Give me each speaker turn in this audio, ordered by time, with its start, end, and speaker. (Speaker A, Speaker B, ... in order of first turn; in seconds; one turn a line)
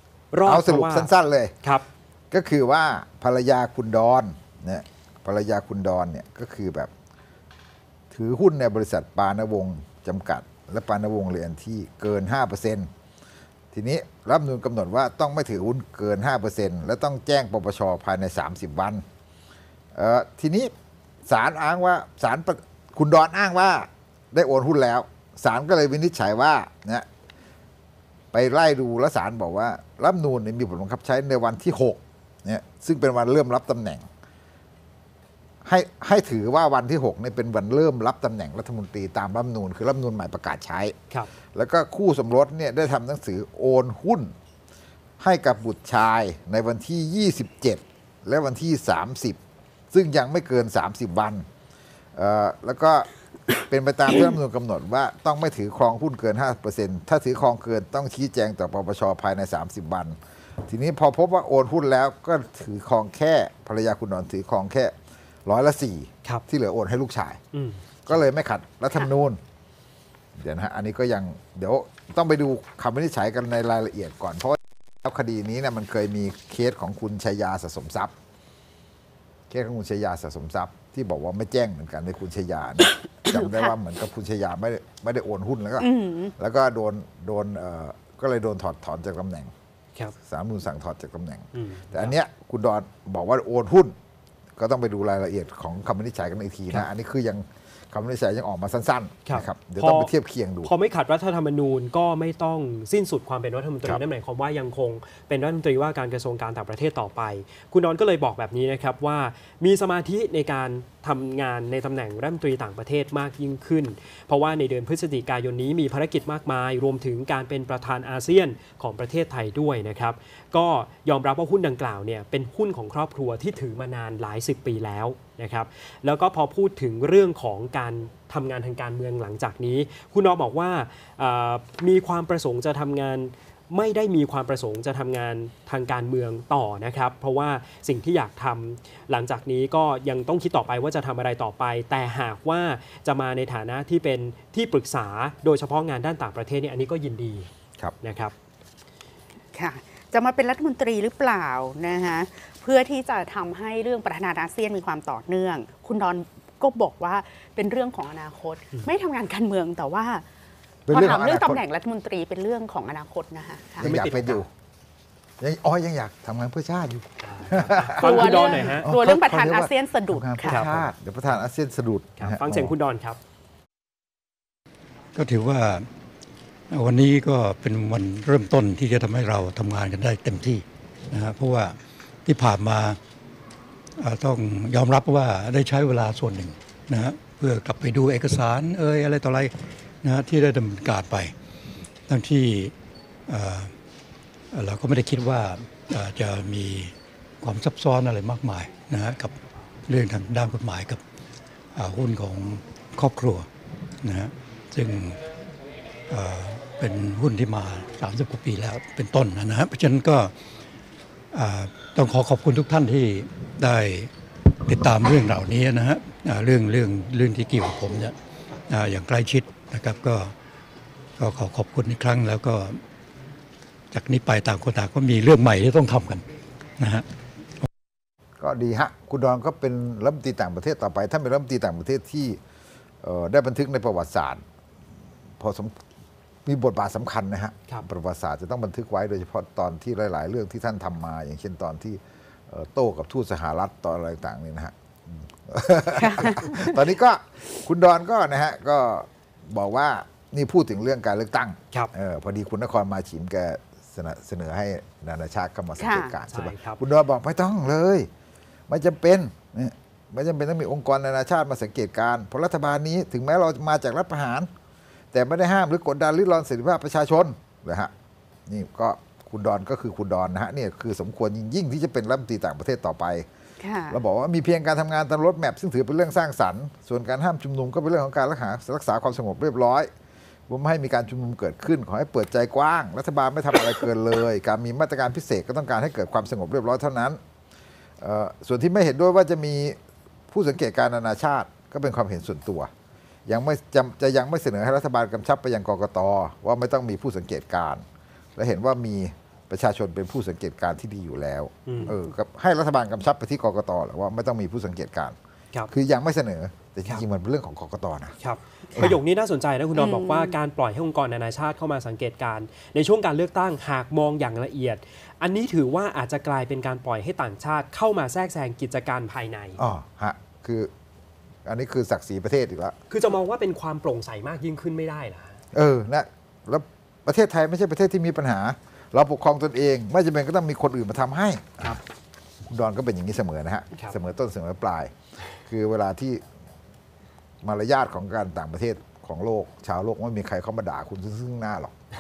Speaker A: 0.3-1.1
Speaker B: 0.4-1.5
Speaker B: 2.3-6.9
Speaker B: 8.1-12.9
Speaker B: 13.7-19.0
Speaker B: 19.9-20.7
Speaker B: 21.3-27.1
Speaker B: 28.3-34.1
Speaker B: 35.6-41.0
Speaker B: 41.5-44.3
Speaker B: 45.2-49.4
Speaker B: 49.9-51.5
Speaker B: 52.1-64.9
Speaker B: 65.5-67.4
Speaker A: 67.5-67.8
Speaker B: 68.1-69.4
Speaker B: 70.4-78.1
Speaker B: 79.5-89.5
Speaker C: 85.8-86.3
Speaker B: 90.2-94.0
Speaker A: 91.5-92.1
Speaker B: 94.6-100.7
Speaker A: 99.3-100.1
Speaker A: 100.6-147.5
Speaker A: 148.0-148.3
Speaker C: 149.5-160.2
Speaker B: 160.9-161.6
Speaker C: 160.9-163.9
Speaker A: 163.8-164.4
Speaker B: 163.8-164.5
Speaker B: 165.4-172.7
Speaker A: 167.2-168.9
Speaker C: 168.0-170.6
Speaker A: 170.4-170.9
Speaker A: 172.2-173.2
Speaker D: 175.1-175.9
Speaker D: 176.7-183.0
Speaker D: 184.0-191.3
Speaker D: 192.1-192.7
Speaker D: 193.3-193.7
Speaker D: 194.5-201.0
Speaker D: 201.7-203.5
Speaker D: 204.0-205.2
Speaker D: 206.1-210.3
Speaker D: 211.3-214.1
Speaker D: 214.7-218.2
Speaker D: 218.7-220.3
Speaker D: 221.2-222.8
Speaker D: 223.9-226.3
Speaker D: 226.8-227.1
Speaker B: 228.4-232.4
Speaker B: 233.0-234.4
Speaker B: 235.4-235.8
Speaker B: 236.5-258.1
Speaker C: 246.0-246.7
Speaker C: 255.8-256.1
Speaker A: 256.3-256.8
Speaker B: 258.7-264.5
Speaker B: 265.1-267.9
Speaker B: 268.5-273.3
Speaker C: 273.6-274.0
Speaker B: 273.9-279.9
Speaker B: 280.5-287.2
Speaker B: 288.0-289.8
Speaker B: 290.3-292.7
Speaker B: 293.3-297.9
Speaker B: 298.4-305.2
Speaker A: 301.7-301.9
Speaker B: 305.7-308.2
Speaker A: 308.2-319.6
Speaker B: 308.7-309.0
Speaker C: 309.8-310.3
Speaker B: 319.6-320.7
Speaker B: 321.4-322.8
Speaker A: 322.9-325.4
Speaker B: 325.5-331.8
Speaker B: 332.5-334.9
Speaker B: 335.4-336.2
Speaker B: 337.4-341.7